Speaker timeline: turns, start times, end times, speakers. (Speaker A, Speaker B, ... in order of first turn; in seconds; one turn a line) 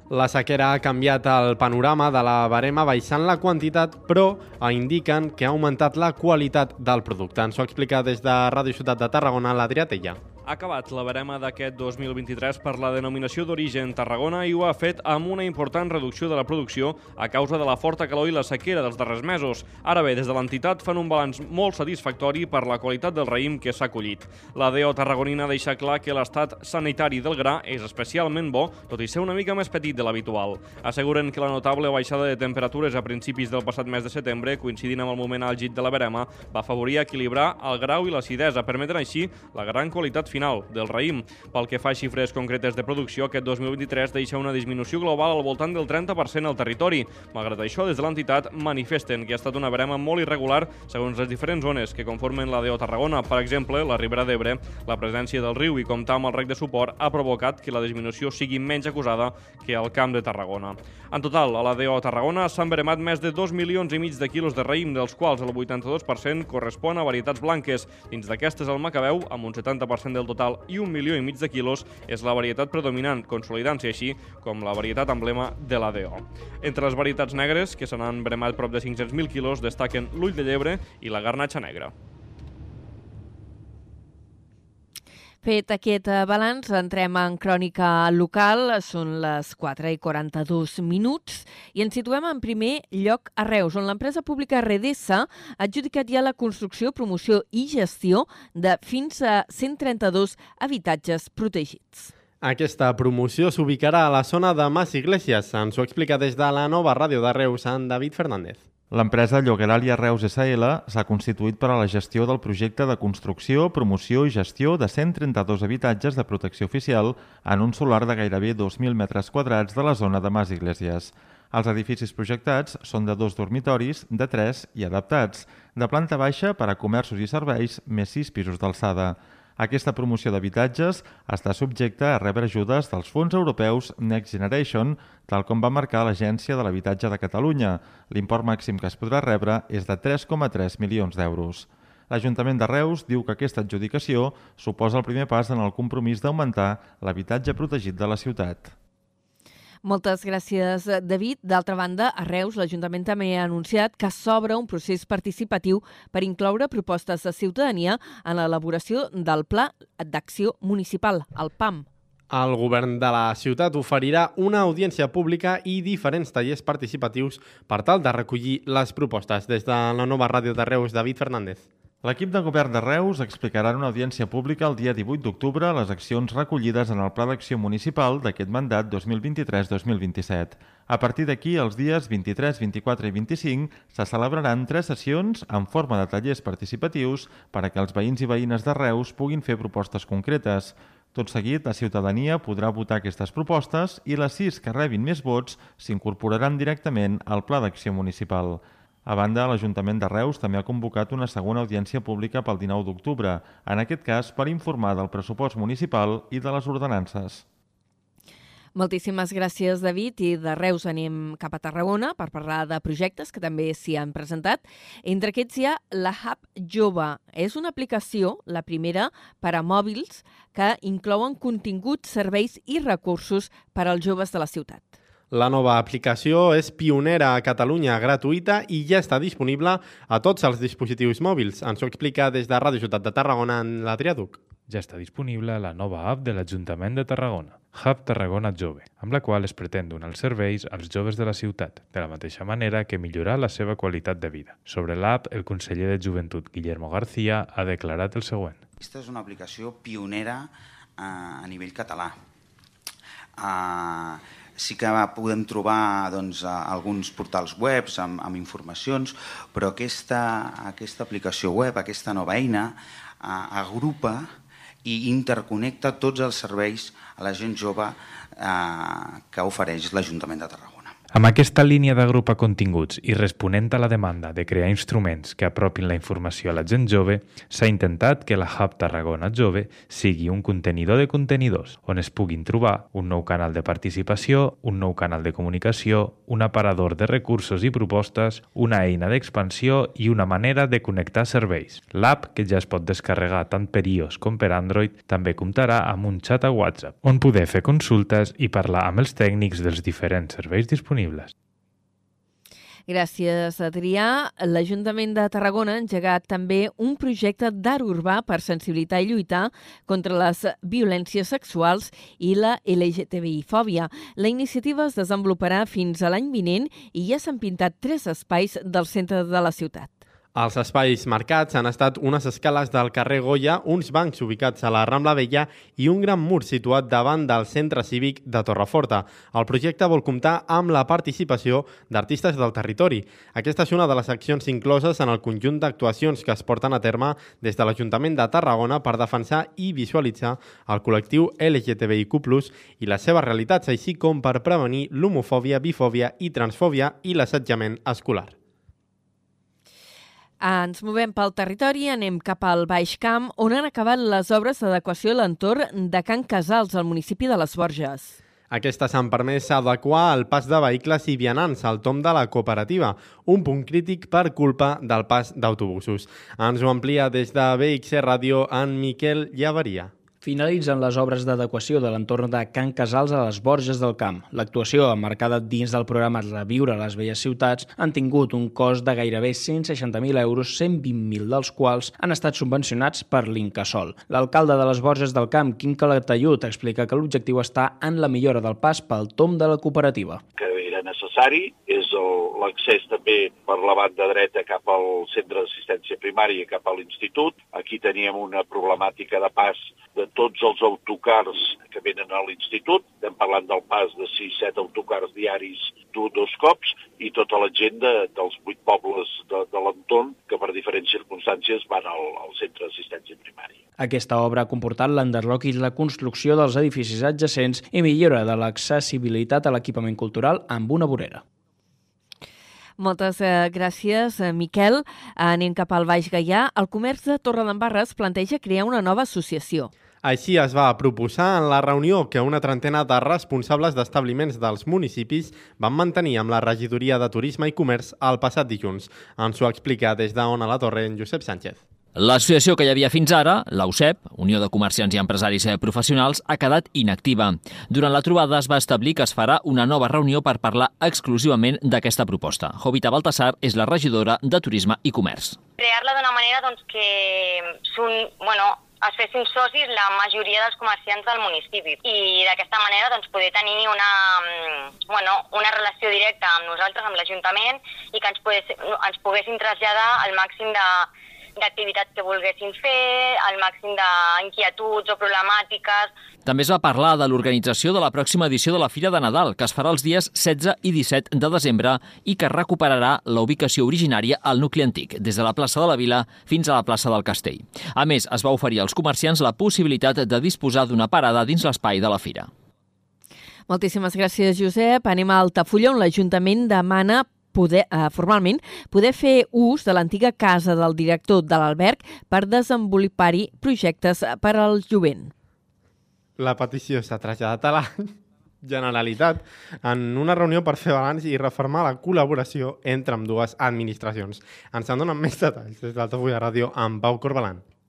Speaker A: 0.1-10.2
Speaker B: 10.5-81.9
Speaker C: 85.4-102.1
Speaker A: 102.4-108.6
Speaker D: 108.9-148.7
Speaker C: 149.8-161.9
Speaker A: 162.3-171.7
Speaker D: 172.0-207.4
Speaker C: 208.8-224.9
Speaker A: 225.3-234.4
Speaker E: 234.7-248.6
Speaker F: 248.8-252.2
Speaker F: 253.4-264.3
Speaker F: 264.9-270.9
Speaker E: 271.1-301.3
Speaker C: 302.9-319.9
Speaker A: 320.4-348.3
Speaker C: 350.4-358.2
Speaker A: 358.5-369.9
Speaker G: 370.2-390.2
Speaker H: 390.4-413.6
Speaker G: 413.8-421.2
Speaker C: 422.8-429.7
Speaker A: 430.0-441.6
Speaker I: 442.0-455.4
Speaker J: 455.6-475.9
Speaker I: 476.2-492.3
Speaker C: 493.5-505.1
Speaker A: 506.2-517.4